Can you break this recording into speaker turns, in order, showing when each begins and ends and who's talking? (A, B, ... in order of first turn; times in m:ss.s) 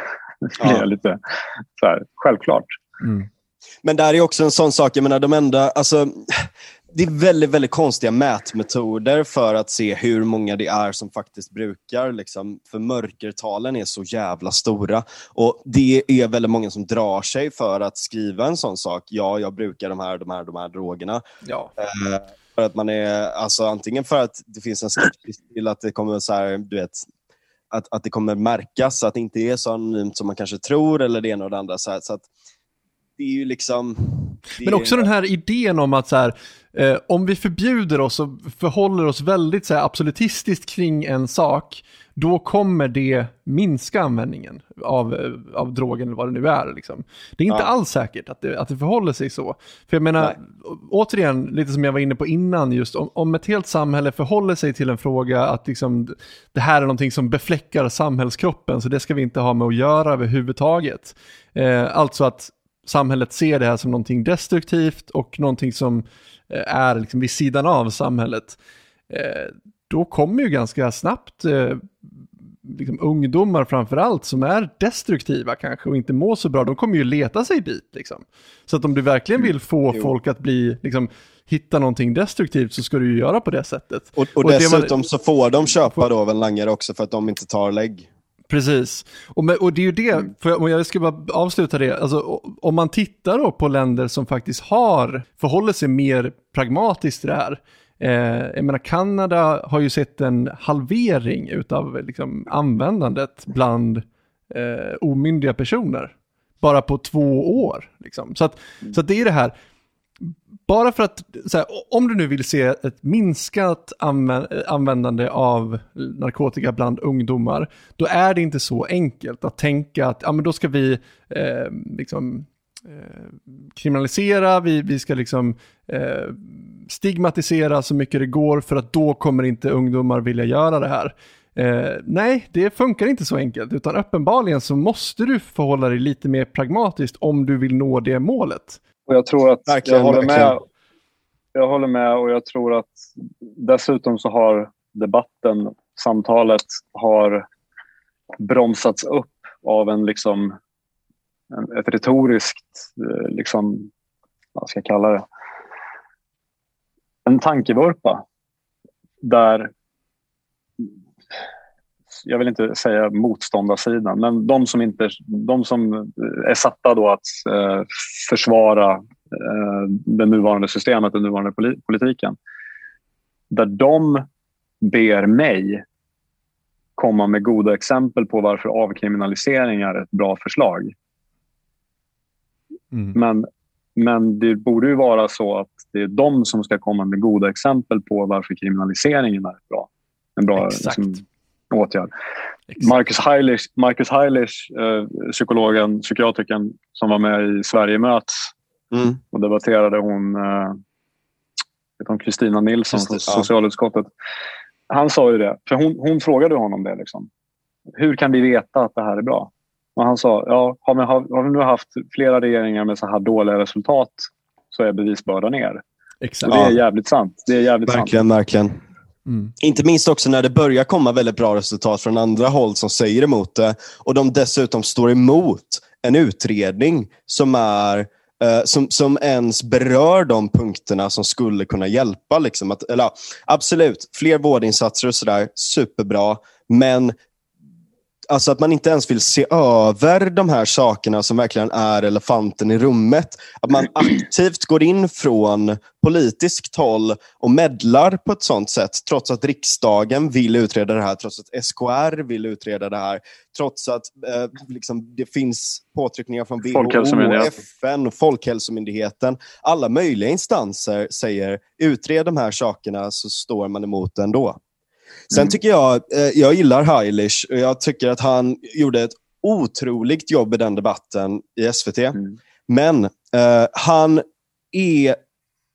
0:00.5-0:01.2 A
0:01.8-0:02.8 A
0:03.0-0:03.3 B
0:03.8-0:21.2 C
0:21.4-0:21.7 B
0:21.8-0:27.1 C
0:27.7-0:32.3 C
0:33.2-0:35.1 C
0:34.6-1:08.6 B
1:09.1-1:11.9 B
1:12.6-1:25.0 B
1:19.4-1:20.1 C
1:24.2-1:28.1 C
1:28.5-1:49.5 B
1:50.2-2:18.8 B
2:19.1-2:20.6 A
2:19.7-2:20.5 C
2:21.5-2:27.4 A
2:28.4-2:30.6 A
2:31.5-2:33.9 A
2:34.5-2:35.2 A
2:37.2-2:38.2 A
2:39.2-2:39.7 A
2:42.2-2:52.4 A
2:53.5-2:54.2 A
2:54.8-2:55.8 A
2:57.0-3:00.9 A
3:02.9-3:03.2 B
3:03.1-3:12.1 A
3:10.6-3:11.2 B
3:12.8-3:18.5 A
3:18.9-3:19.2 C
3:19.3-3:20.8 A
3:22.0-3:24.1 A
3:24.9-3:27.3 A
3:28.0-3:35.8 A
3:36.2-3:36.6 B
3:36.4-3:38.2 A
3:36.5-3:36.8 C
3:37.8-3:38.8 C
3:39.2-3:39.5 B
3:39.6-3:57.2 C
3:58.3-4:24.6 C
4:16.7-4:17.5 A
4:25.3-4:35.2 C